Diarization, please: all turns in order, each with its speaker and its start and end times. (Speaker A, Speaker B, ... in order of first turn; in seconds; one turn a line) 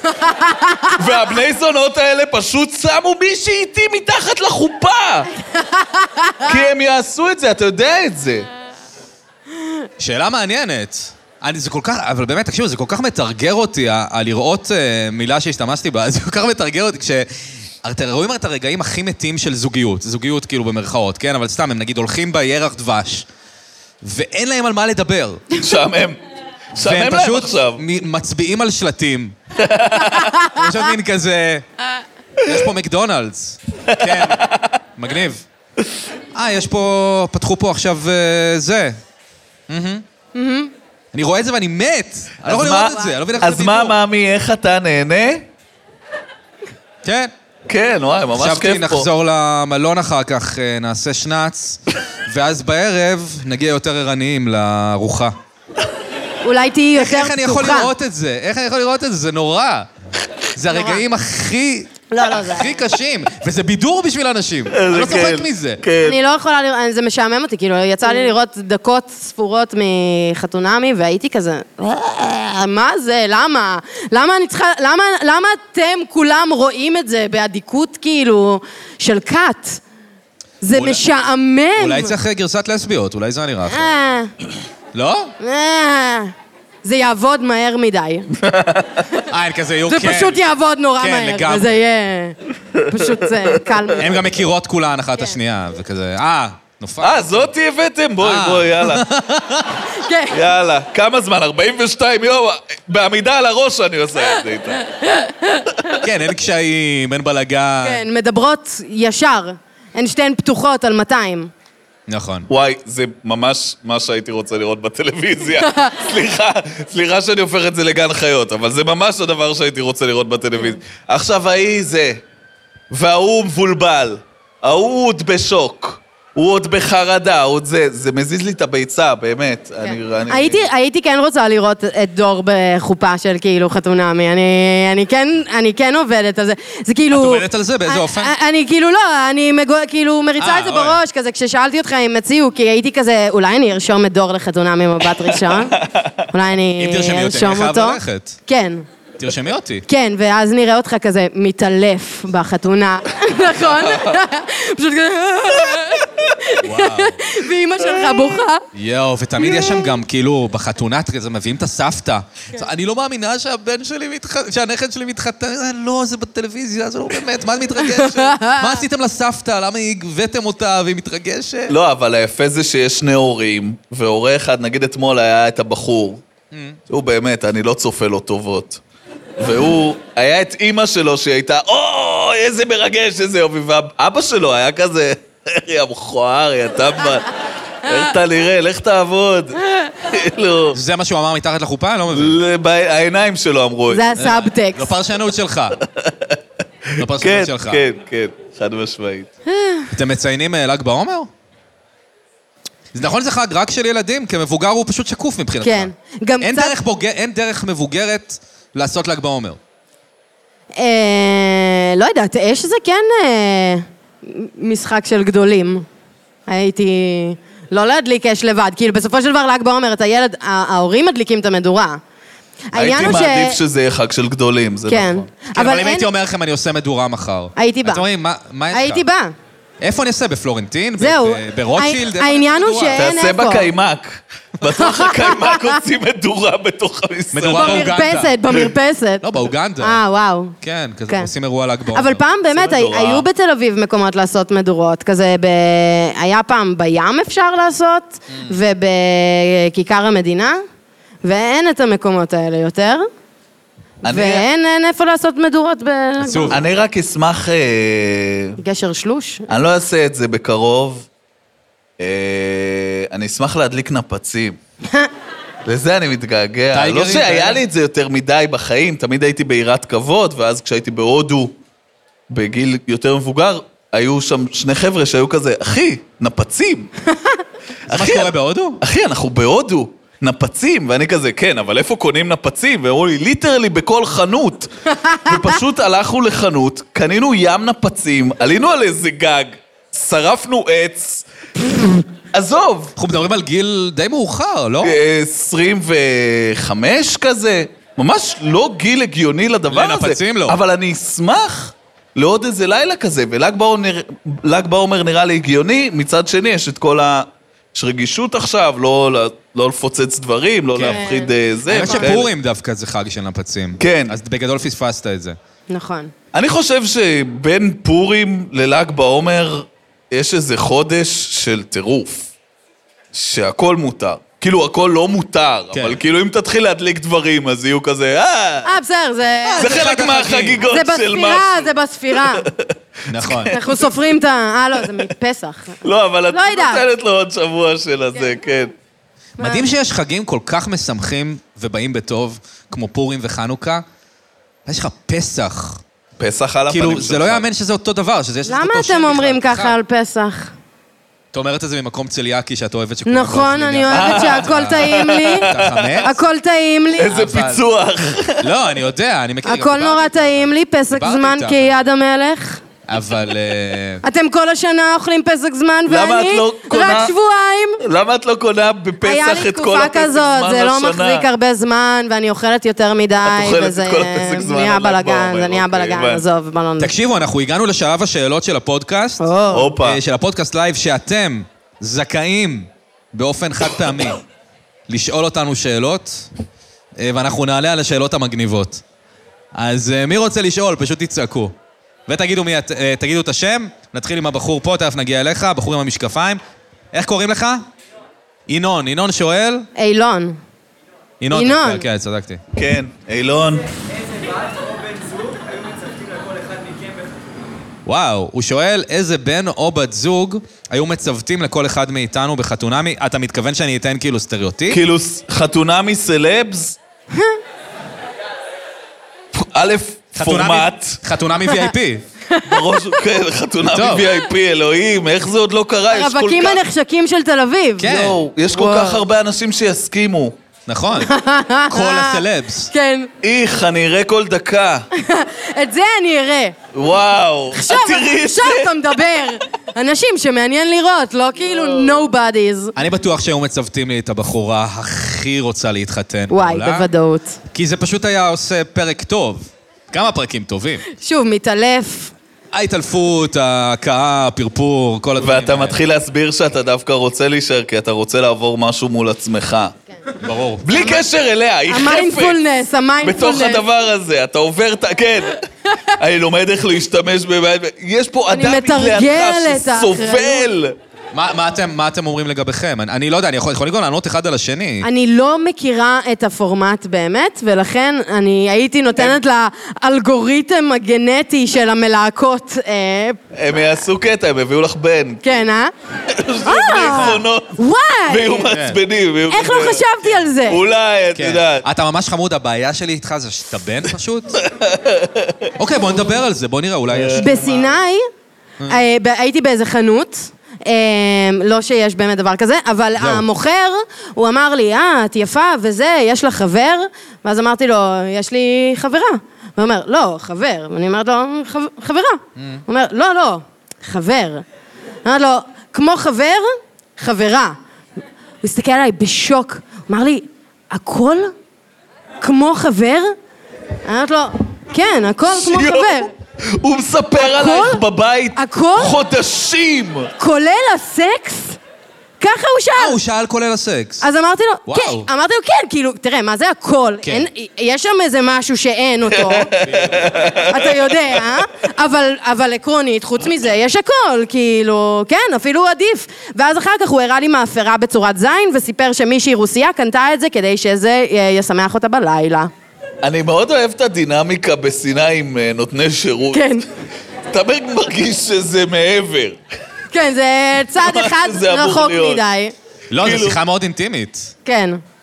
Speaker A: 0.1-1.0
Speaker B: 0.9-5.3
Speaker A: 5.5-6.6
Speaker B: 6.4-8.5
Speaker C: 10.0-17.3
Speaker C: 17.8-23.2
Speaker C: 24.0-25.5
Speaker B: 25.6-26.2
Speaker B: 26.7-27.8
Speaker C: 26.8-29.4
Speaker B: 29.6-30.4
Speaker C: 30.4-31.6
Speaker C: 32.4-35.5
Speaker B: 33.9-34.7
Speaker C: 36.3-39.0
Speaker C: 39.7-40.0
Speaker A: 40.4-40.7
Speaker C: 41.1-44.0
Speaker B: 42.5-45.5
Speaker C: 47.0-47.3
Speaker B: 47.7-49.1
Speaker C: 48.4-55.4
Speaker A: 56.4-57.9
Speaker C: 57.0-59.9
Speaker C: 60.5-65.8
Speaker A: 60.7-61.0
Speaker A: 62.1-62.8
Speaker B: 64.7-66.2
Speaker A: 66.0-79.8
Speaker A: 80.6-82.1
Speaker C: 80.7-81.0
Speaker C: 81.8-84.0
Speaker A: 83.7-84.3
Speaker C: 84.9-85.3
Speaker A: 85.4-88.3
Speaker B: 88.3-89.0
Speaker C: 89.3-90.4
Speaker A: 89.9-94.1
Speaker C: 91.0-91.7
Speaker C: 94.0-97.5
Speaker B: 97.0-99.0
Speaker C: 98.2-99.8
Speaker A: 99.9-100.4
Speaker B: 100.3-104.8
Speaker A: 105.0-105.9
Speaker C: 106.0-108.0
Speaker A: 107.8-111.5
Speaker C: 112.1-112.5
Speaker B: 112.5-122.2
Speaker A: 115.6-116.0
Speaker B: 122.9-130.7
Speaker A: 129.8-145.8
Speaker C: 137.1-138.3
Speaker C: 140.4-141.0
Speaker B: 145.4-146.2
Speaker A: 146.3-148.8
Speaker C: 146.8-148.4
Speaker C: 149.2-149.9
Speaker A: 149.9-158.6
Speaker B: 153.7-154.2
Speaker C: 156.6-157.2
Speaker C: 158.7-171.7
Speaker A: 159.4-159.9
Speaker A: 167.9-168.8
Speaker B: 171.7-176.2
Speaker C: 176.5-176.8
Speaker B: 176.9-178.8
Speaker B: 179.4-187.3
Speaker B: 187.8-190.8
Speaker C: 190.7-192.4
Speaker B: 192.1-194.0
Speaker A: 193.9-194.9
Speaker C: 194.2-195.8
Speaker B: 195.8-196.4
Speaker C: 197.0-197.8
Speaker B: 197.0-199.3
Speaker A: 199.5-199.9
Speaker C: 199.9-201.3
Speaker C: 202.9-205.9
Speaker A: 205.6-206.7
Speaker C: 206.4-209.6
Speaker A: 210.7-215.9
Speaker A: 216.5-222.0
Speaker A: 222.7-223.6
Speaker B: 222.7-225.3
Speaker A: 224.9-226.1
Speaker C: 225.6-229.1
Speaker A: 227.6-228.0
Speaker A: 228.7-229.3
Speaker C: 229.8-233.1
Speaker A: 231.0-233.7
Speaker B: 232.9-237.9
Speaker A: 234.8-235.8
Speaker C: 237.3-238.4
Speaker A: 237.5-239.2
Speaker C: 239.2-240.0
Speaker A: 239.8-240.6
Speaker C: 240.6-242.2
Speaker A: 241.9-250.6
Speaker B: 242.5-243.3
Speaker C: 248.3-248.6
Speaker A: 251.2-253.1
Speaker B: 254.0-254.5
Speaker A: 254.1-256.6
Speaker C: 256.2-256.6
Speaker B: 256.5-258.6
Speaker A: 258.6-259.5
Speaker B: 259.5-261.1
Speaker B: 262.0-264.6
Speaker B: 265.6-271.6
Speaker C: 266.7-267.6
Speaker B: 272.3-276.9
Speaker A: 277.1-277.4
Speaker B: 277.9-284.7
Speaker C: 277.9-278.8
Speaker A: 285.0-285.4
Speaker B: 285.2-291.3
Speaker B: 292.3-292.9
Speaker C: 292.9-295.0
Speaker B: 294.8-312.3
Speaker C: 299.7-300.6
Speaker C: 310.7-311.0
Speaker A: 310.9-312.1
Speaker C: 311.7-315.4
Speaker B: 313.8-314.2
Speaker A: 315.7-316.1
Speaker B: 316.3-322.3
Speaker B: 323.1-328.7
Speaker C: 325.7-326.0
Speaker A: 328.6-329.8
Speaker C: 329.4-330.6
Speaker B: 329.6-333.9
Speaker A: 330.6-332.5
Speaker C: 333.1-333.5
Speaker A: 333.4-336.9
Speaker B: 335.8-338.7
Speaker C: 339.4-343.9
Speaker A: 339.4-339.7
Speaker C: 344.7-345.8
Speaker B: 346.2-347.4
Speaker C: 346.7-349.8
Speaker A: 348.4-350.5
Speaker C: 351.3-356.2
Speaker A: 353.1-355.5
Speaker B: 353.9-356.0
Speaker A: 356.0-357.2
Speaker B: 357.0-358.5
Speaker C: 357.1-357.6
Speaker C: 358.4-361.8
Speaker A: 359.4-362.6
Speaker C: 362.9-364.0
Speaker A: 364.0-367.8
Speaker B: 365.9-367.1
Speaker B: 367.8-371.3
Speaker A: 369.0-376.9
Speaker B: 373.2-376.2
Speaker C: 376.8-379.2
Speaker A: 379.2-379.7
Speaker B: 379.5-380.0
Speaker C: 379.8-384.2
Speaker C: 384.9-386.3
Speaker C: 387.0-388.8
Speaker C: 389.6-391.5
Speaker C: 392.1-396.4
Speaker C: 396.9-397.6
Speaker C: 398.5-399.7
Speaker A: 399.8-400.4
Speaker C: 401.2-402.4
Speaker A: 401.3-401.9
Speaker B: 402.6-403.7
Speaker C: 407.9-414.8
Speaker B: 414.7-416.8
Speaker A: 417.1-417.4
Speaker B: 419.3-421.0
Speaker C: 420.1-422.0
Speaker A: 422.3-423.0
Speaker B: 422.4-426.6
Speaker C: 423.7-424.1
Speaker A: 425.9-427.9
Speaker C: 427.8-428.2
Speaker B: 427.8-430.4
Speaker A: 428.5-429.0
Speaker C: 430.7-431.1
Speaker A: 431.0-433.1
Speaker C: 431.7-432.7
Speaker B: 433.2-434.9
Speaker A: 434.9-436.6
Speaker B: 436.7-438.7
Speaker A: 437.5-442.7
Speaker B: 441.6-442.0
Speaker C: 442.8-446.9
Speaker A: 446.3-447.4
Speaker C: 447.5-450.9
Speaker A: 450.9-452.1
Speaker C: 452.5-455.8
Speaker B: 455.2-459.7
Speaker C: 460.2-460.7
Speaker B: 460.6-462.4
Speaker A: 460.7-461.0
Speaker A: 461.7-463.6
Speaker B: 463.0-470.8
Speaker A: 468.3-470.5
Speaker C: 471.1-474.9
Speaker A: 474.8-483.2
Speaker B: 483.3-485.2
Speaker A: 485.2-485.7
Speaker B: 486.1-489.9
Speaker A: 486.4-488.5
Speaker C: 488.5-488.8
Speaker A: 489.3-490.6
Speaker B: 490.4-491.7
Speaker C: 491.1-494.4
Speaker B: 494.4-495.5
Speaker C: 495.6-497.4
Speaker B: 496.9-497.7
Speaker A: 497.2-498.1
Speaker A: 498.7-514.4
Speaker C: 503.0-503.3
Speaker C: 512.4-512.6
Speaker A: 515.0-517.6
Speaker A: 518.4-521.3
Speaker A: 522.2-523.1
Speaker A: 523.9-526.1
Speaker B: 525.3-530.1
Speaker A: 527.2-527.8
Speaker A: 528.4-529.0
Speaker A: 530.2-531.6
Speaker A: 532.2-533.0
Speaker C: 532.8-534.0
Speaker A: 534.0-539.5
Speaker C: 534.7-535.1
Speaker B: 539.1-541.1
Speaker C: 539.6-540.1
Speaker A: 540.5-552.5
Speaker B: 553.0-556.6
Speaker A: 556.3-556.7
Speaker B: 557.3-559.4
Speaker A: 559.9-562.5
Speaker B: 560.8-562.2
Speaker C: 562.9-564.3
Speaker B: 563.0-563.4
Speaker A: 564.5-564.8